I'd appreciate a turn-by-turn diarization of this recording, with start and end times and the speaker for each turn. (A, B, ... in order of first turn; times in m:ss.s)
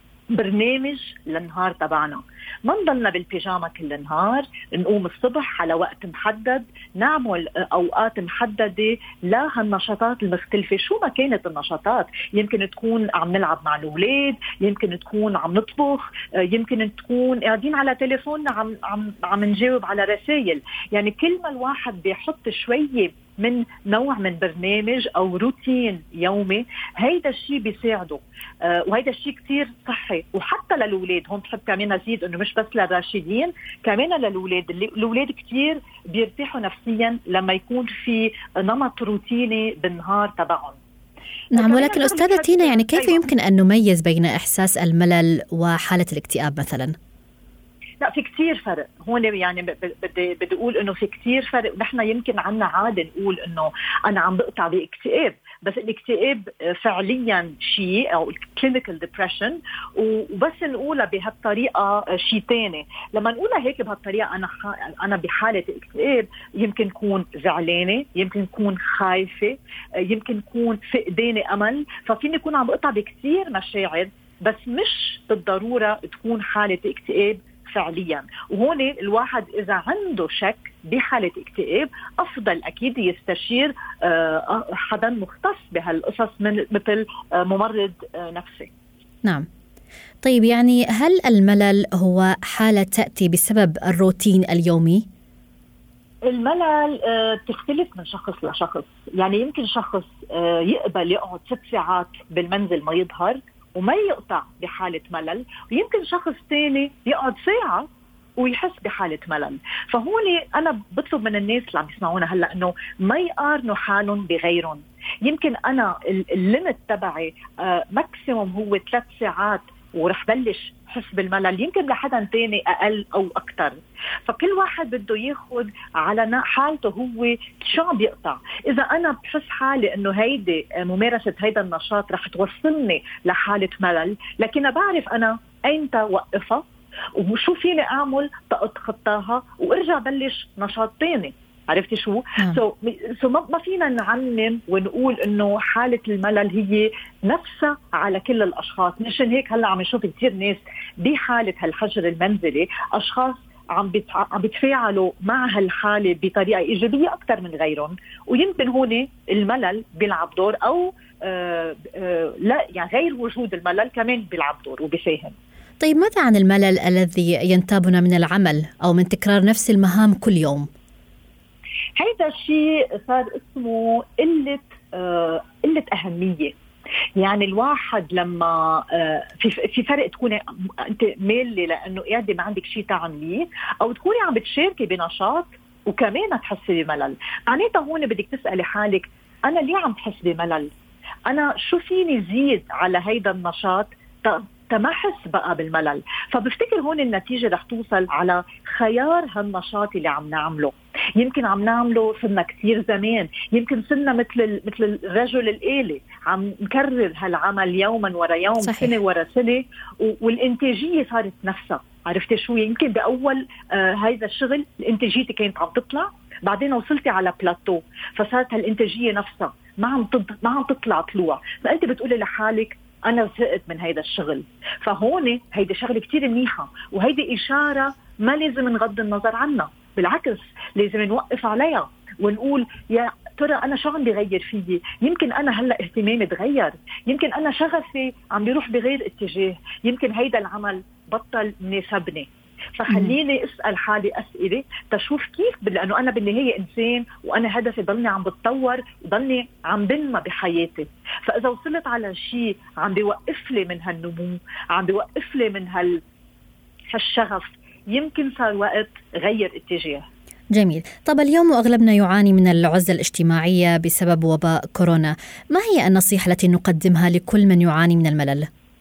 0:00.3-0:40.8 A
0:41.5-0:43.2 A
0:41.5-0:46.9 B
0:48.0-1:28.7 A
1:30.2-1:35.0 B
1:36.2-1:47.9 A
1:48.4-2:16.6 A
2:17.2-2:45.3 A
2:45.8-2:50.7 B
2:52.0-2:56.5 A
2:57.2-3:10.7 A
3:11.3-4:16.0 A
3:28.6-3:28.9 B
4:02.9-4:03.1 B
4:16.9-4:20.0 A
4:20.5-4:28.5 B